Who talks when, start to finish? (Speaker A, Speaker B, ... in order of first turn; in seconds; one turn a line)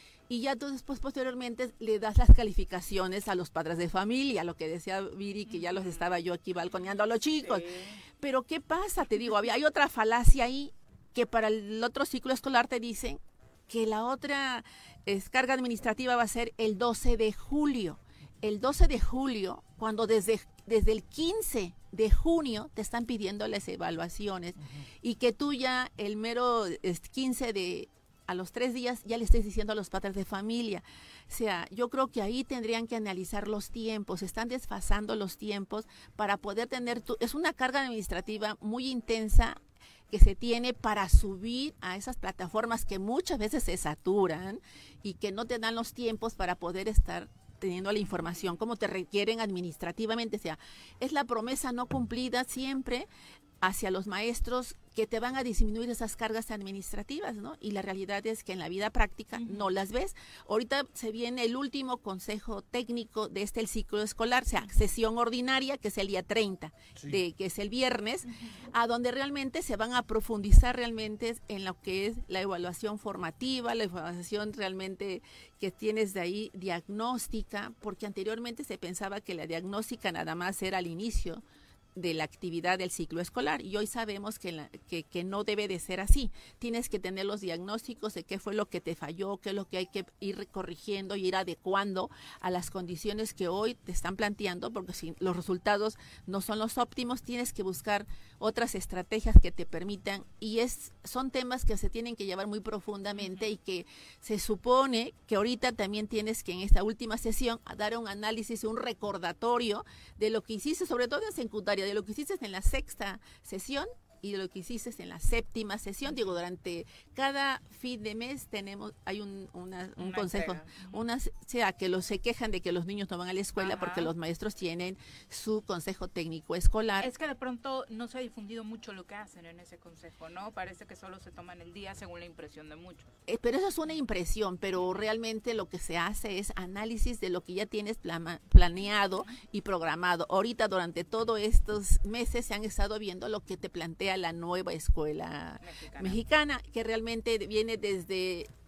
Speaker A: 0.3-39.6
Speaker B: 5.5-6.2
Speaker B: 7.4-8.0
Speaker A: 40.1-53.1
Speaker A: 53.6-81.4
Speaker B: 59.4-59.7
Speaker A: 82.0-127.1
Speaker B: 116.1-116.3
Speaker B: 120.0-121.0
Speaker B: 123.6-124.1
Speaker B: 127.0-133.1
Speaker A: 133.3-148.5
Speaker B: 145.6-146.2